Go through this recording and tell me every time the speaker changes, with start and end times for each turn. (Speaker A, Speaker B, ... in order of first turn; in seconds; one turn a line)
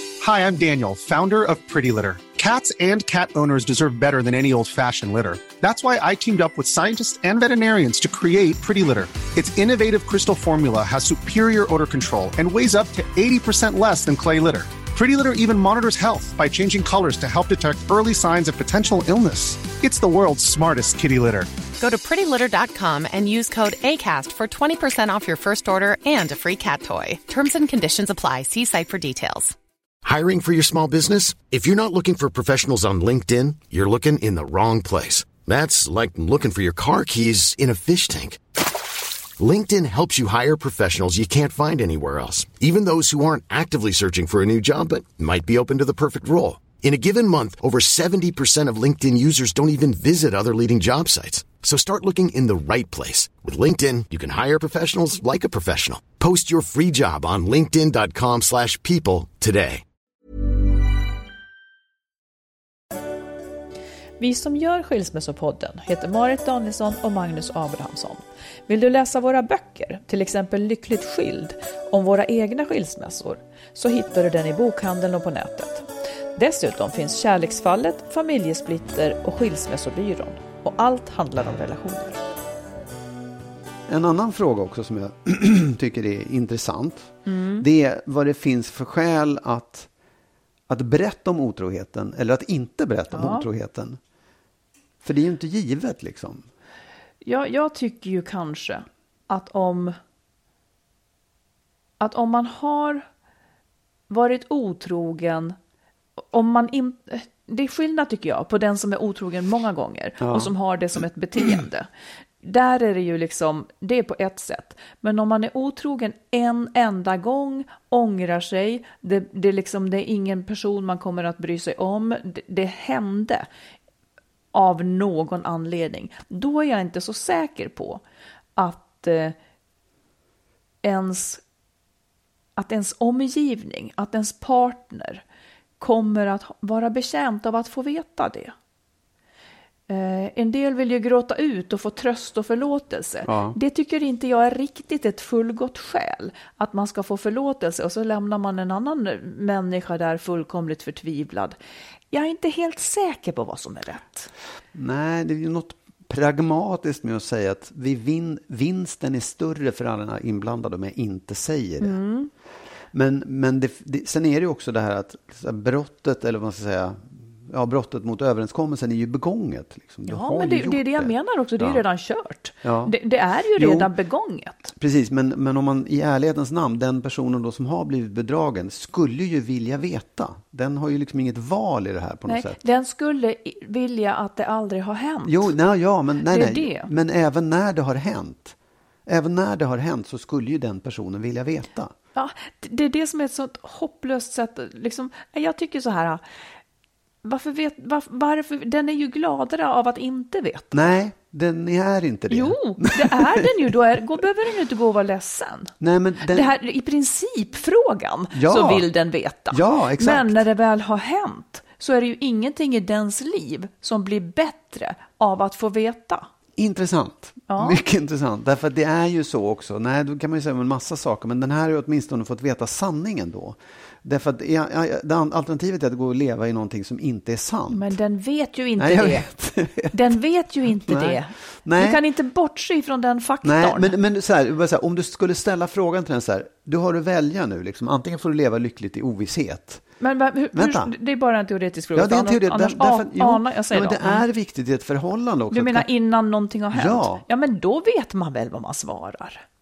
Speaker A: 0.2-21.5
Speaker B: 21.8-29.6
Speaker C: 30.0-38.4
Speaker C: 39.4-59.8
Speaker D: 64.2-82.2
Speaker E: 83.9-89.9
Speaker D: 87.3-87.7
Speaker E: 90.7-94.0
Speaker D: 93.1-93.5
Speaker E: 95.0-96.5
Speaker D: 97.2-100.0
Speaker D: 102.0-103.0
Speaker D: 104.1-105.6
Speaker D: 106.3-111.9
Speaker E: 110.2-110.5
Speaker D: 112.4-123.5
Speaker D: 124.5-128.0
Speaker D: 128.6-129.4
Speaker D: 130.8-131.4
Speaker D: 132.6-135.2
Speaker D: 135.8-138.5
Speaker D: 139.9-151.6
Speaker E: 143.2-143.6
Speaker D: 152.1-154.3
Speaker E: 154.7-162.0
Speaker D: 161.8-162.3
Speaker E: 162.9-171.8
Speaker D: 170.1-174.7
Speaker E: 172.6-173.0
Speaker E: 173.5-173.9
Speaker E: 174.8-182.6
Speaker D: 182.3-185.5
Speaker E: 185.2-191.9
Speaker D: 186.3-186.9
Speaker D: 192.2-196.2
Speaker D: 197.2-200.9
Speaker E: 200.7-203.7
Speaker D: 202.3-216.3
Speaker E: 205.8-206.5
Speaker E: 208.3-208.9
Speaker E: 209.5-210.4
Speaker E: 216.6-227.9
Speaker D: 217.5-217.8
Speaker D: 227.7-229.3
Speaker E: 228.8-232.0
Speaker D: 229.9-233.9
Speaker E: 233.4-239.9
Speaker D: 240.0-244.2
Speaker E: 240.5-240.9
Speaker E: 241.9-245.9
Speaker D: 245.5-249.4
Speaker E: 246.7-247.2